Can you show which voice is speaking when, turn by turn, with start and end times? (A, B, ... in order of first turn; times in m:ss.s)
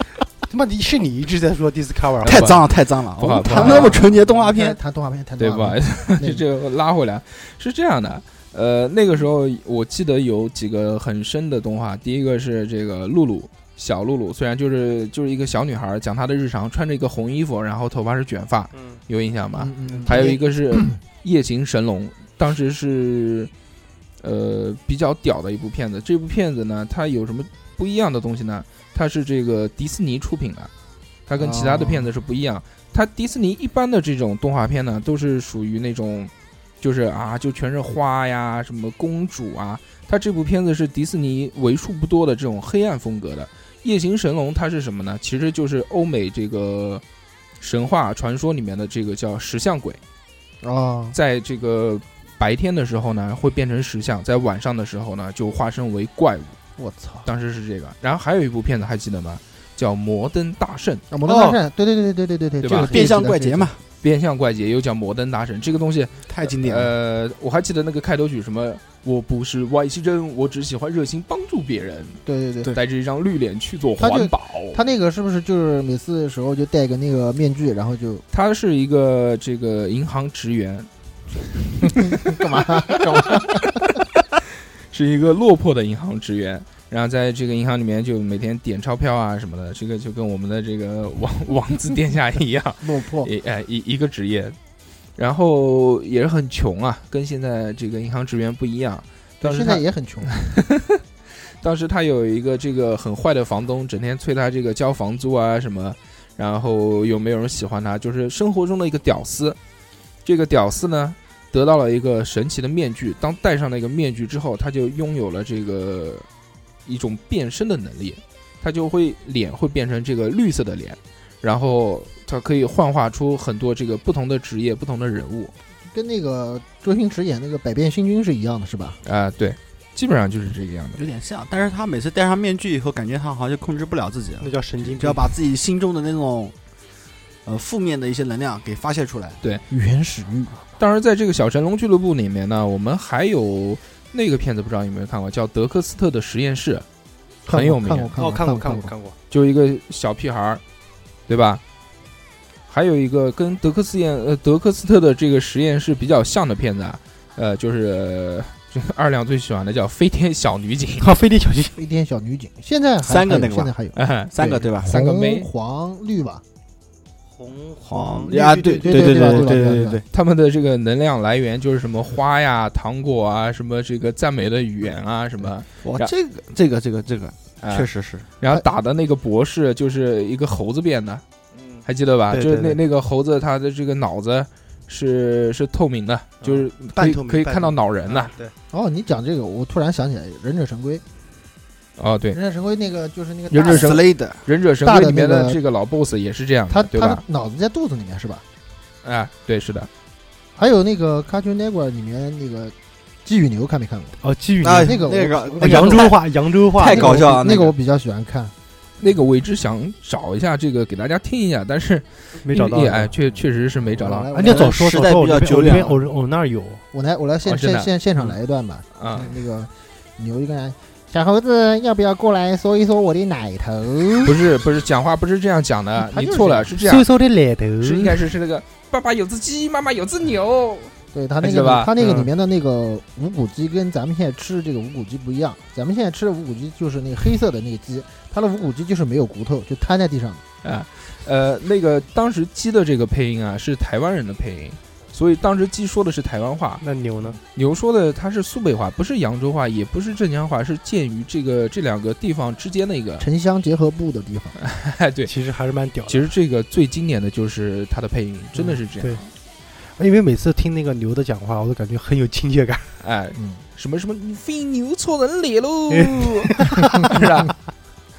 0:00.5-0:02.6 A
0:02.2-0:04.8 B
0:02.2-0:02.6 C
0:03.2-0:04.0 C
0:03.6-0:06.4 D
0:05.4-0:23.5 C
0:18.7-0:19.0 A
0:19.6-0:21.0 D
0:19.9-0:20.2 A
0:24.2-0:30.7 C
0:31.3-0:47.0 C
0:31.4-0:32.1 D
0:47.6-0:50.0 C
0:50.6-0:51.2 D
0:51.1-0:56.6 C
0:56.8-0:57.3 D
0:57.2-1:01.0 C
1:01.1-1:03.7 D
1:01.3-1:01.6 B
1:02.6-1:02.9 C
1:02.7-1:03.8 B
1:04.0-1:12.2 C
1:06.3-1:06.9 B
1:12.2-1:12.8 D
1:12.7-1:14.8 C
1:14.0-1:18.2 D
1:18.3-1:20.9 C
1:21.7-1:22.1 C
1:21.8-1:24.0 D
1:24.9-1:34.6 C
1:32.8-1:33.3 D
1:35.2-1:41.0 C
1:39.4-1:40.4 D
1:41.6-1:49.6 C
1:50.2-1:56.3 C
1:56.9-2:05.5 C
2:05.9-2:09.0 D
2:09.0-2:11.0 C
2:11.0-2:16.6 B
2:14.4-2:15.3 A
2:17.4-2:19.4 B
2:19.7-2:20.5 D
2:20.8-2:26.8 C
2:27.5-2:28.9 D
2:27.5-2:28.1 C
2:28.2-2:29.2 A
2:29.3-2:30.6 C
2:31.3-2:31.6 C
2:32.7-2:41.1 C
2:41.0-2:41.8 A
2:41.8-2:46.4 D
2:43.0-2:43.7 B
2:44.0-2:45.5 C
2:44.3-2:44.9 B
2:47.3-2:49.6 A
2:47.9-2:50.0 B
2:48.8-2:50.0 D
2:50.1-2:56.1 C
2:55.8-2:58.3 B
2:57.6-2:57.9 C
2:58.4-3:01.2 C
3:01.6-3:02.8 A
3:01.8-3:08.3 C
3:06.4-3:08.5 A
3:08.7-3:11.0 D
3:12.0-3:12.4 C
3:12.3-3:14.0 D
3:13.5-3:17.2 C
3:13.5-3:14.4 B
3:14.8-3:15.6 D
3:16.7-3:18.4 D
3:19.0-3:19.9 C
3:20.6-3:24.2 D
3:24.2-3:27.3 A
3:24.6-3:27.7 B
3:24.8-3:26.2 D
3:26.8-3:28.5 D
3:29.0-3:34.4 C
3:32.4-3:33.1 A
3:33.9-3:34.7 D
3:34.3-3:36.8 A
3:34.5-3:36.0 B
3:36.9-3:44.3 D
3:37.5-3:38.3 C
3:39.0-3:39.4 C
3:44.2-3:47.1 C
3:46.1-3:46.6 D
3:46.7-3:48.3 A
3:47.8-3:52.3 C
3:51.1-4:00.4 D
4:00.6-4:06.8 C
4:06.8-4:07.4 A
4:07.5-4:13.2 C
4:13.2-4:14.6 D
4:14.6-4:15.3 C
4:15.2-4:16.3 A
4:16.1-4:19.3 C
4:18.6-4:19.2 A
4:20.0-4:22.9 A
4:23.0-4:27.6 C
4:23.4-4:23.6 D
4:25.9-4:27.2 A